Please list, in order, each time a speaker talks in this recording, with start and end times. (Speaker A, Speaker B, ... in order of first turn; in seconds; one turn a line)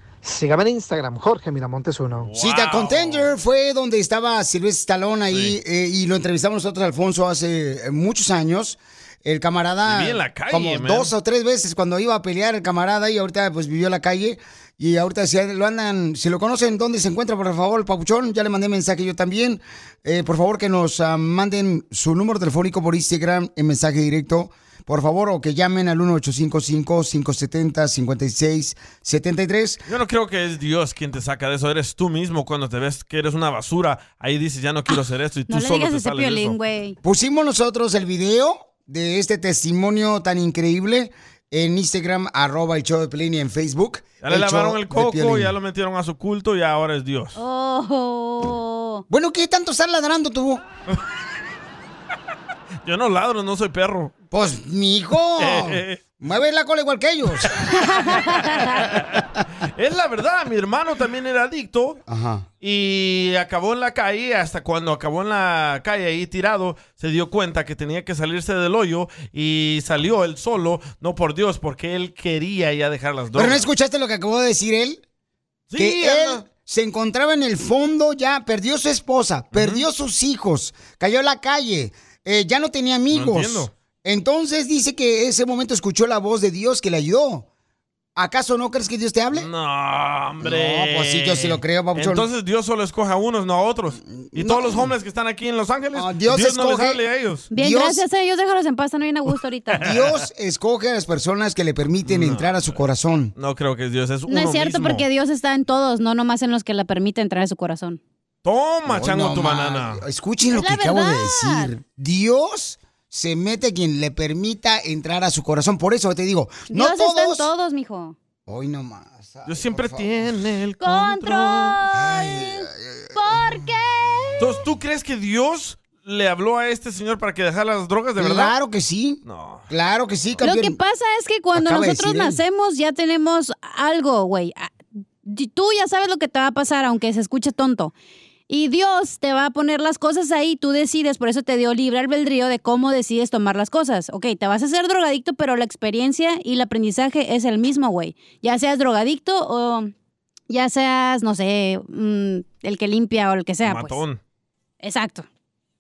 Speaker A: 0.2-2.3
Speaker B: 2.2-3.3
Speaker C: 2.4-29.8
Speaker B: 5.3-5.6
Speaker B: 9.8-11.1
Speaker B: 29.9-36.6
Speaker D: 35.5-37.0
Speaker C: 37.0-45.5
Speaker B: 44.2-47.4
Speaker D: 47.4-49.0
Speaker C: 49.1-50.6
Speaker B: 52.9-54.1
Speaker C: 54.3-57.6
Speaker B: 55.4-56.0
Speaker D: 58.0-58.4
Speaker B: 58.8-59.2
Speaker B: 59.8-62.0
Speaker C: 62.1-62.5
Speaker B: 62.6-73.7
Speaker C: 73.3-75.0
Speaker B: 75.7-76.4
Speaker C: 75.8-87.5
Speaker B: 79.5-79.8
Speaker B: 83.1-83.7
Speaker C: 88.2-89.5
Speaker B: 89.3-97.5
Speaker C: 90.4-92.3
Speaker C: 94.1-94.9
Speaker C: 95.9-97.0
Speaker C: 97.5-98.0
Speaker D: 97.5-99.9
Speaker C: 99.8-103.3
Speaker B: 102.1-102.8
Speaker B: 103.4-105.0
Speaker D: 104.3-108.0
Speaker B: 108.5-110.0
Speaker C: 108.9-117.5
Speaker D: 110.5-111.7
Speaker D: 116.7-118.2
Speaker C: 118.5-120.2
Speaker B: 119.5-121.8
Speaker D: 120.8-124.4
Speaker C: 121.9-123.6
Speaker B: 124.4-128.5
Speaker C: 128.2-130.8
Speaker B: 129.2-129.7
Speaker D: 130.4-134.7
Speaker C: 131.5-132.4
Speaker D: 135.2-137.9
Speaker D: 138.5-149.9
Speaker D: 150.5-154.0
Speaker B: 153.7-154.2
Speaker D: 154.8-155.3